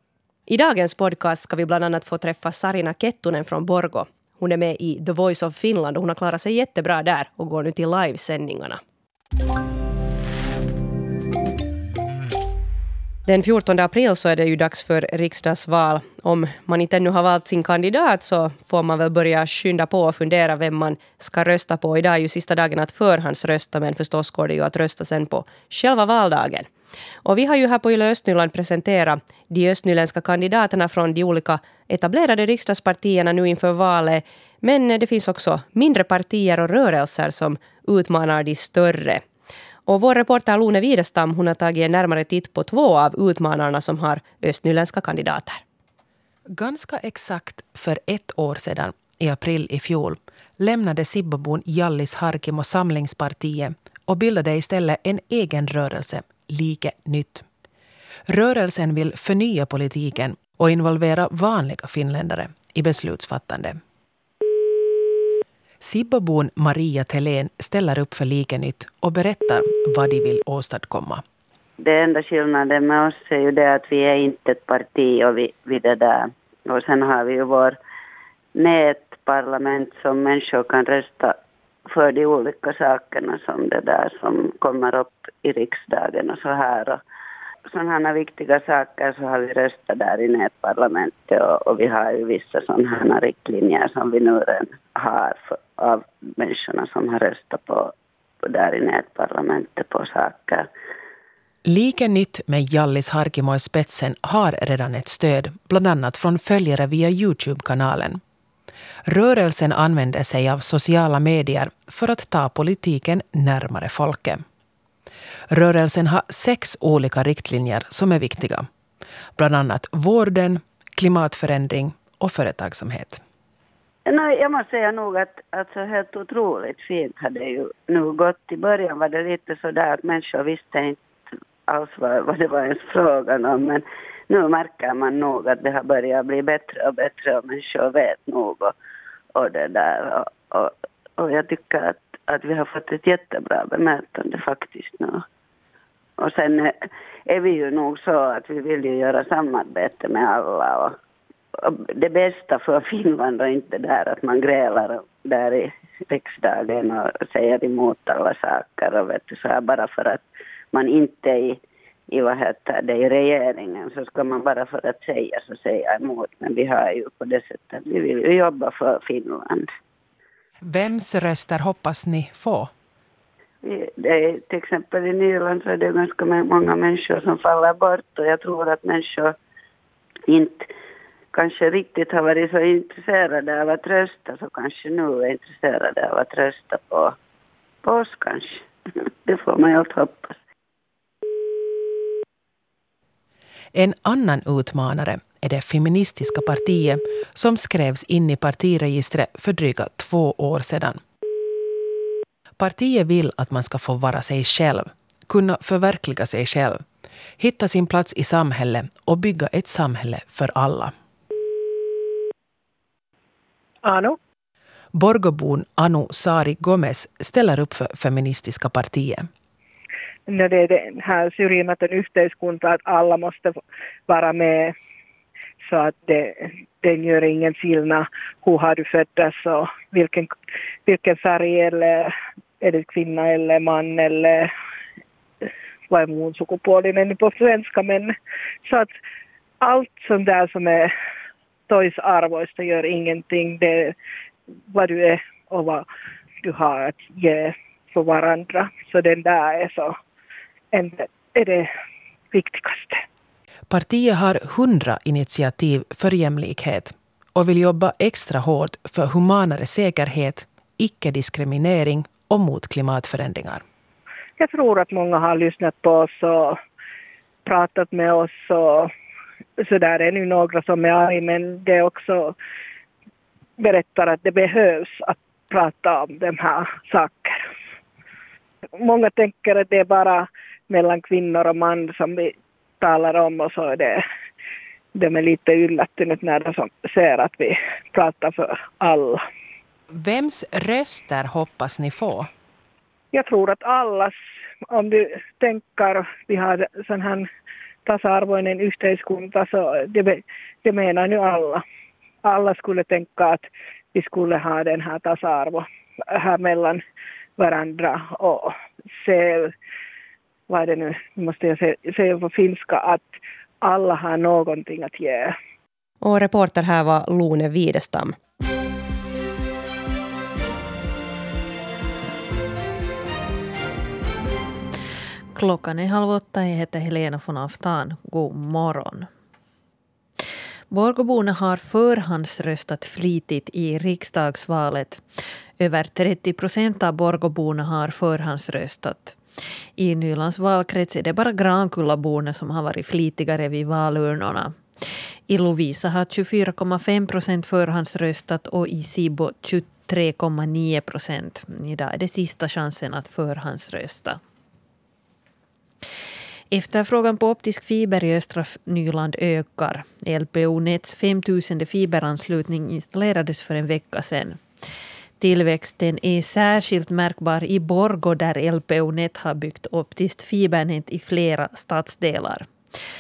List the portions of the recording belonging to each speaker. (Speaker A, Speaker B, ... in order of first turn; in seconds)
Speaker A: 0.5-8.8, 13.3-26.7, 27.2-39.2, 39.9-45.6, 316.0-318.2
Speaker B: 46.5-57.5, 58.3-63.8, 65.8-71.2, 101.7-108.2, 109.1-114.4, 115.5-118.7, 119.4-123.2, 170.6-172.7, 193.7-201.0, 202.6-206.8, 207.4-210.9, 214.9-219.3, 253.7-263.6, 289.9-292.3
Speaker C: 71.8-77.8, 78.5-81.3, 81.9-87.0, 87.7-97.9, 98.5-100.7, 124.1-131.0, 131.7-138.7, 139.4-145.2, 146.2-146.7, 147.3-150.9, 151.6-161.6, 162.1-169.7, 173.6-179.3, 180.3-180.7, 181.3-187.1, 187.8-188.6, 189.3-190.3
Speaker D: 213.8-214.2, 220.3-224.7, 225.6-230.3, 230.9-234.5, 235.9-238.1, 238.7-238.9, 239.6-240.9, 241.7-243.9, 244.7-245.8, 246.4-249.9, 250.7-251.7, 252.3-253.0, 264.4-266.6, 267.4-268.9, 269.6-272.4, 273.6-277.4, 278.8-284.0, 284.9-289.2, 293.1-294.1, 294.7-297.2, 297.9-301.6, 302.2-306.8, 307.4-309.5, 310.5-315.3
Speaker E: 325.3-329.1, 330.7-335.0, 335.6-339.2, 339.8-344.6, 345.3-354.2, 356.5-364.4, 365.2-372.5